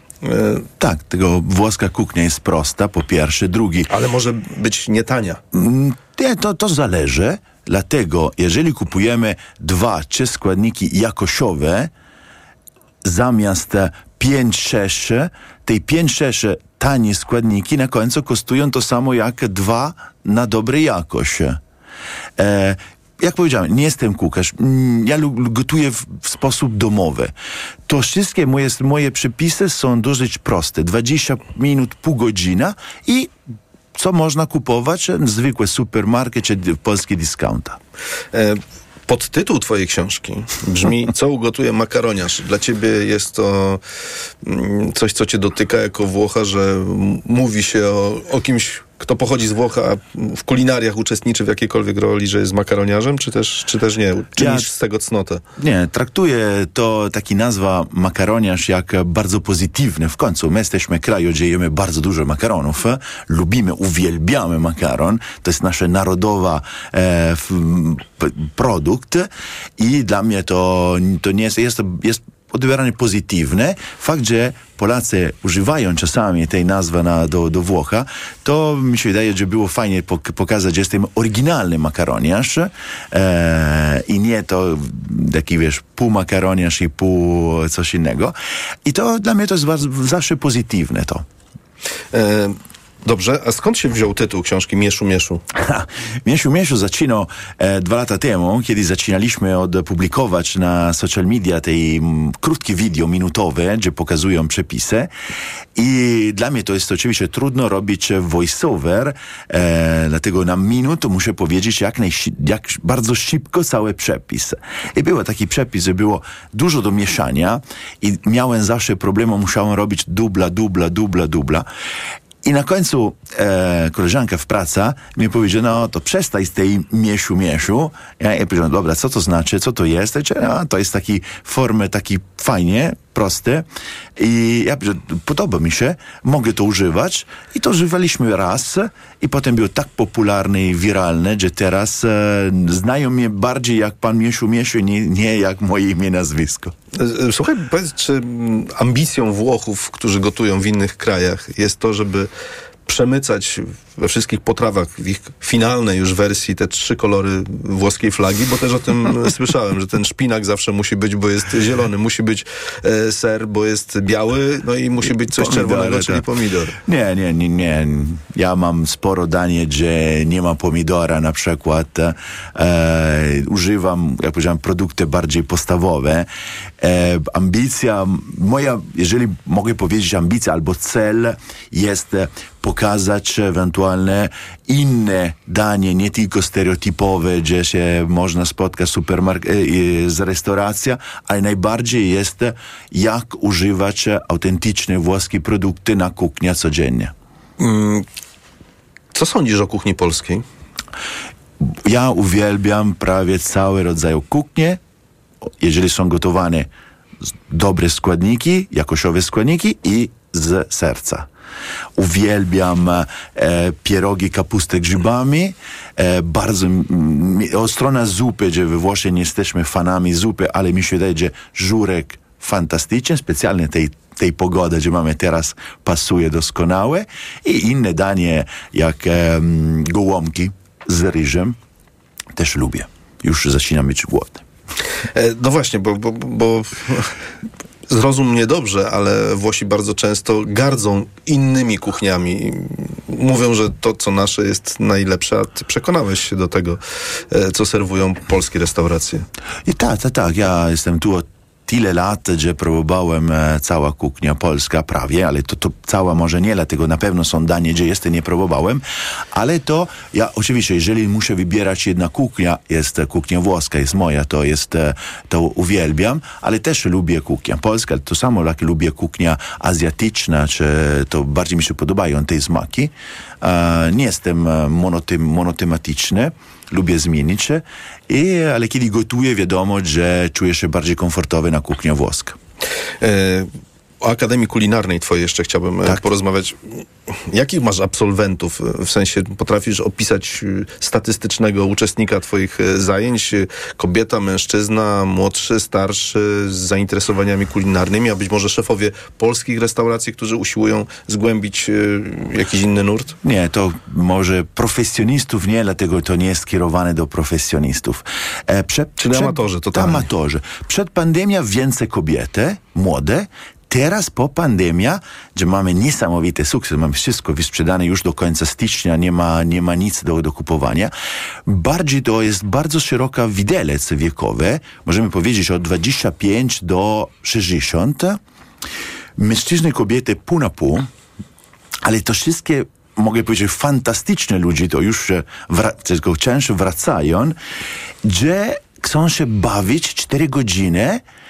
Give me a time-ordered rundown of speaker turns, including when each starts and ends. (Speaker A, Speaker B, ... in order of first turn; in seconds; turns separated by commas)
Speaker A: 0.2-0.7, Speaker B: 0.8-3.9, Speaker A: 3.9-5.4, Speaker B: 5.5-11.9, Speaker B: 13.0-21.6, Speaker B: 22.4-27.3, Speaker B: 27.9-33.3, Speaker B: 34.0-37.8, Speaker A: 38.3-43.8, Speaker A: 44.4-55.4, Speaker B: 54.4-54.7, Speaker B: 55.6-91.2, Speaker A: 92.1-95.4, Speaker B: 95.5-105.1, Speaker B: 105.8-121.7, Speaker B: 122.4-146.7, Speaker A: 146.9-152.3, Speaker A: 152.9-166.8, Speaker B: 165.1-166.2, Speaker B: 166.8-176.3, Speaker B: 176.8-197.1, Speaker A: 197.6-198.1, Speaker A: 199.1-200.4, Speaker B: 201.6-204.8, Speaker B: 205.6-206.7, Speaker B: 207.5-211.3, Speaker B: 212.0-231.6, Speaker B: 232.4-234.4, Speaker A: 235.1-237.1, Speaker A: 237.9-249.3, Speaker B: 249.7-282.4, Speaker A: 283.0-283.5, Speaker A: 284.0-303.2, Speaker B: 303.2-320.9, Speaker A: 309.0-310.1, Speaker B: 321.5-328.2, Speaker B: 329.2-330.9, Speaker B: 331.8-337.4, Speaker B: 338.0-341.0